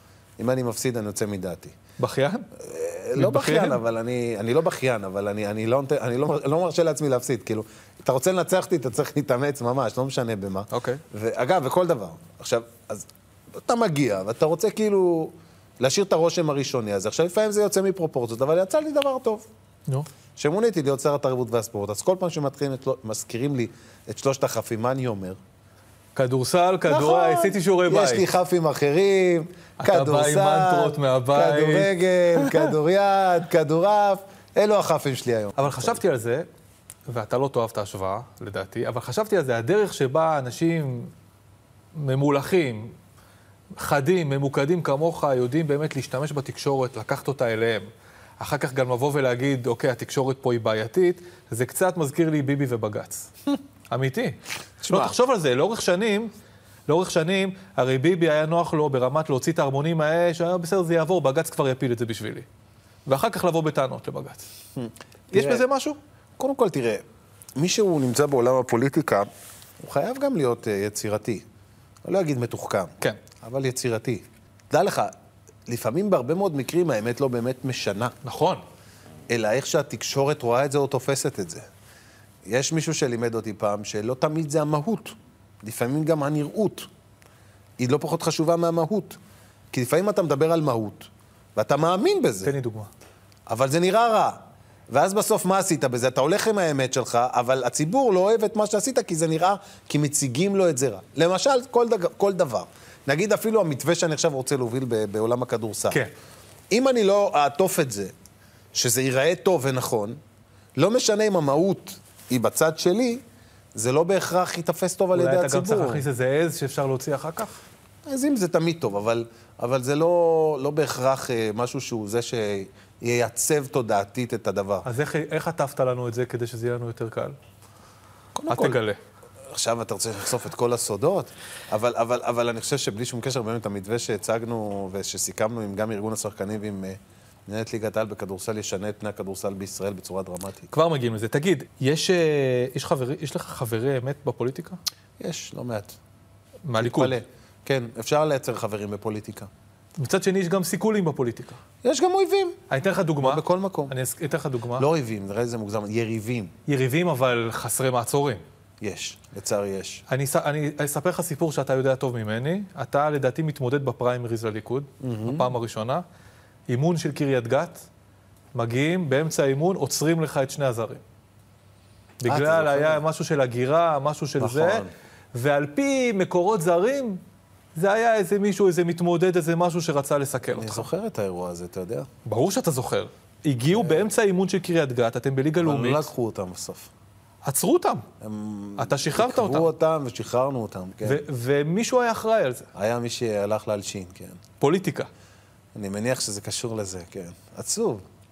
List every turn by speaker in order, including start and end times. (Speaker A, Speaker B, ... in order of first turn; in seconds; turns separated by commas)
Speaker A: 0.4-1.8, Speaker B: 2.0-2.5, Speaker A: 2.6-19.5, Speaker B: 3.1-3.8, Speaker B: 10.7-11.0, Speaker A: 20.4-25.4, Speaker B: 26.1-28.2, Speaker A: 26.9-36.0, Speaker B: 29.8-31.9, Speaker B: 35.6-36.5, Speaker B: 37.1-41.1, Speaker B: 42.0-43.0, Speaker B: 43.8-47.9, Speaker B: 48.4-53.3, Speaker B: 53.9-56.3, Speaker A: 54.8-55.1, Speaker B: 56.9-62.5, Speaker B: 63.1-64.5, Speaker A: 64.8-65.6, Speaker B: 65.3-66.0, Speaker A: 66.4-67.0, Speaker A: 67.6-69.3, Speaker A: 69.8-71.5, Speaker A: 72.0-75.1, Speaker A: 75.7-78.2, Speaker B: 78.2-78.6, Speaker A: 79.3-81.7, Speaker A: 82.5-86.9, Speaker A: 87.8-89.2, Speaker A: 89.7-92.5, Speaker B: 92.4-92.9, Speaker A: 93.5-106.0, Speaker A: 106.7-108.1, Speaker A: 108.7-110.2, Speaker A: 110.8-113.2, Speaker A: 113.7-116.0, Speaker B: 115.1-117.6, Speaker A: 118.1-124.9, Speaker B: 124.8-127.4, Speaker A: 128.3-128.8, Speaker B: 128.5-129.0, Speaker A: 129.5-140.7, Speaker B: 140.7-144.8, Speaker A: 145.2-146.0, Speaker B: 146.7-147.2, Speaker A: 146.8-149.5, Speaker B: 150.0-151.6, Speaker A: 151.8-152.6, Speaker B: 152.7-154.9, Speaker A: 153.2-153.9, Speaker A: 154.8-156.6, Speaker B: 156.7-158.4, Speaker A: 158.8-160.0, Speaker B: 160.1-166.0, Speaker A: 165.0-165.5, Speaker B: 166.7-167.9, Speaker B: 168.6-171.0, Speaker B: 172.2-177.2, Speaker A: 172.3-173.0, Speaker A: 174.4-174.9, Speaker B: 177.8-180.9, Speaker A: 180.5-182.1, Speaker B: 182.3-186.1, Speaker A: 183.7-184.1, Speaker A: 185.6-186.9, Speaker B: 187.4-188.1, Speaker A: 188.2-191.2, Speaker B: 188.8-189.7, Speaker B: 191.0-192.7, Speaker A: 192.8-194.4, Speaker B: 194.6-195.1, Speaker A: 195.8-198.1